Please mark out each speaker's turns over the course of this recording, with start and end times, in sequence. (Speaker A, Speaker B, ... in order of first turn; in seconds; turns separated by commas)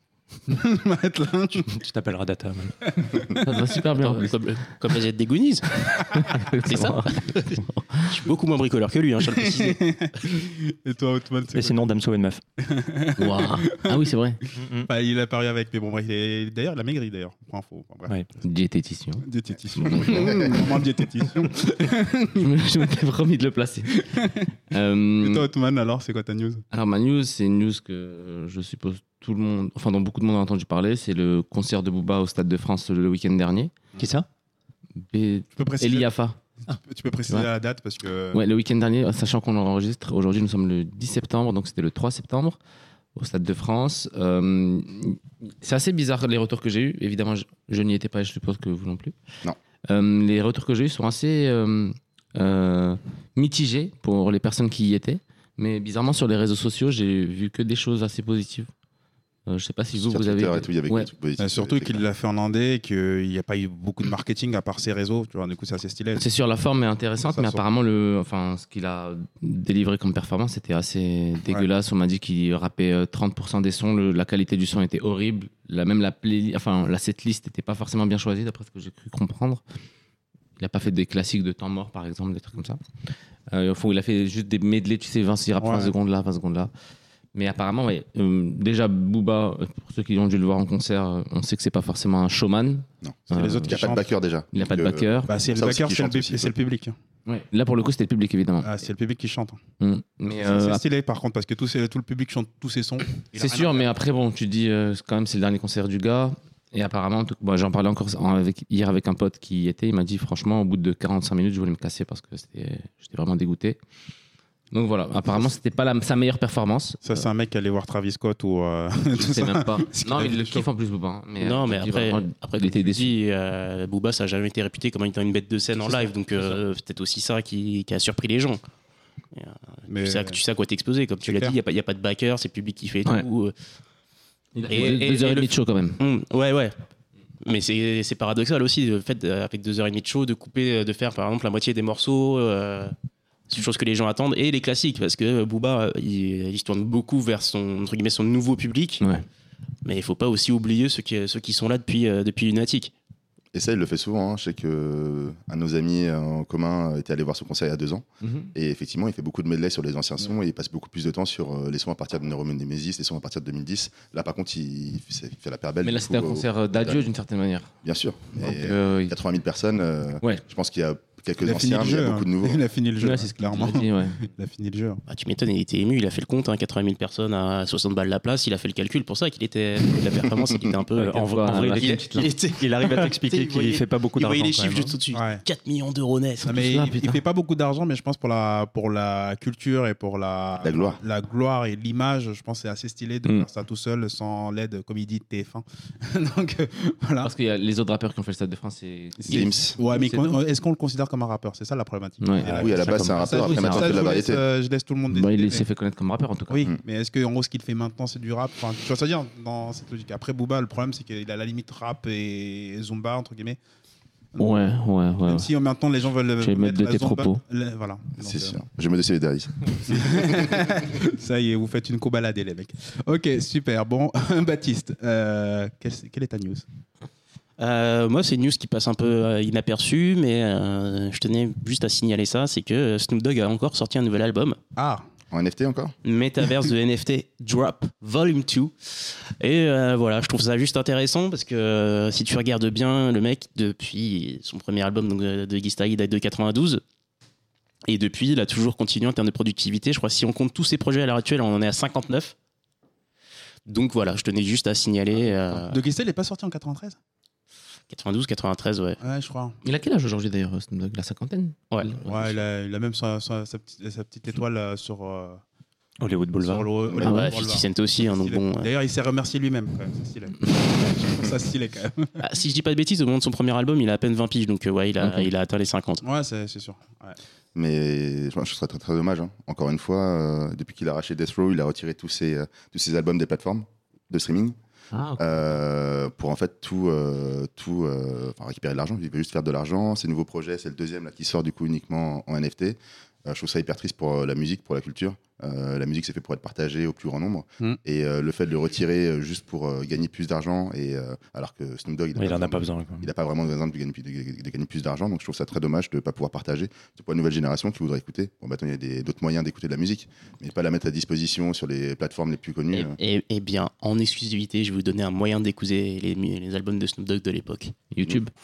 Speaker A: 0.5-1.7, Speaker B: 1.6-2.9, Speaker A: 2.9-3.5, Speaker C: 3.3-4.4, Speaker D: 3.9-9.9, Speaker C: 6.0-8.2, Speaker A: 9.4-11.8, Speaker B: 11.5-12.4, Speaker A: 12.6-14.0, Speaker C: 13.2-14.4, Speaker B: 14.5-14.9, Speaker A: 14.8-18.2, Speaker C: 18.4-19.2, Speaker A: 19.2-22.5, Speaker E: 19.8-20.5, Speaker C: 19.8-20.8, Speaker C: 22.2-24.1, Speaker A: 24.1-24.5, Speaker C: 24.7-25.4, Speaker A: 25.2-26.6, Speaker C: 26.7-33.7, Speaker B: 34.0-34.3, Speaker C: 35.1-36.4, Speaker A: 35.5-36.1, Speaker A: 36.7-38.4, Speaker C: 38.3-42.6, Speaker C: 43.1-49.1, Speaker C: 49.9-58.7, Speaker C: 59.5-61.1, Speaker E: 59.9-62.0, Speaker A: 61.4-66.2, Speaker C: 66.2-79.6, Speaker A: 67.3-67.6, Speaker C: 80.6-86.7, Speaker A: 85.6-85.9, Speaker C: 87.3-93.9, Speaker E: 93.0-96.5, Speaker A: 93.3-94.0, Speaker C: 94.5-95.3, Speaker A: 95.2-96.9, Speaker C: 97.2-98.7, Speaker A: 98.6-99.6, Speaker C: 99.8-100.8, Speaker A: 100.3-103.9, Speaker C: 103.3-113.8, Speaker C: 114.7-117.0, Speaker A: 117.0-120.7, Speaker C: 119.2-123.2, Speaker D: 121.4-128.6, Speaker C: 125.8-126.6, Speaker D: 129.3-133.5, Speaker A: 129.9-130.4, Speaker A: 131.2-131.6, Speaker C: 134.6-136.0, Speaker D: 134.7-136.8, Speaker D: 137.4-142.9, Speaker D: 143.5-149.0, Speaker D: 149.8-152.9, Speaker E: 153.5-167.1, Speaker C: 158.2-158.5, Speaker C: 165.8-167.7, Speaker E: 167.8-172.6, Speaker C: 168.3-169.1, Speaker A: 171.4-175.0, Speaker C: 173.0-174.2, Speaker D: 175.1-186.6, Speaker B: 180.9-184.9, Speaker C: 181.2-182.3, Speaker A: 185.1-185.4, Speaker A: 186.4-197.3, Speaker C: 186.5-187.2, Speaker E: 190.6-191.0, Speaker C: 197.2-200.4, Speaker A: 199.2-205.7, Speaker E: 199.3-199.8, Speaker C: 202.2-204.1, Speaker E: 202.4-204.4, Speaker C: 205.1-206.7, Speaker A: 206.5-213.6, Speaker A: 214.3-218.6, Speaker C: 214.4-215.5, Speaker C: 216.4-217.4, Speaker E: 218.2-220.7, Speaker A: 219.9-226.6, Speaker D: 227.6-234.6, Speaker A: 234.8-235.0, Speaker E: 235.3-235.9, Speaker D: 236.0-246.8, Speaker D: 247.8-252.3, Speaker D: 253.7-255.8, Speaker A: 255.5-257.0, Speaker D: 257.9-259.0, Speaker A: 259.0-259.6, Speaker C: 259.6-262.4, Speaker D: 261.7-261.9, Speaker A: 262.0-265.4, Speaker B: 266.0-266.7, Speaker A: 266.4-272.2, Speaker D: 267.0-268.7, Speaker C: 267.0-267.3, Speaker D: 272.2-276.0, Speaker A: 276.0-277.2, Speaker E: 277.5-284.6, Speaker C: 284.9-285.2, Speaker E: 285.2-313.0, Speaker B: 302.2-303.1, Speaker D: 312.7-317.7, Speaker C: 317.9-318.3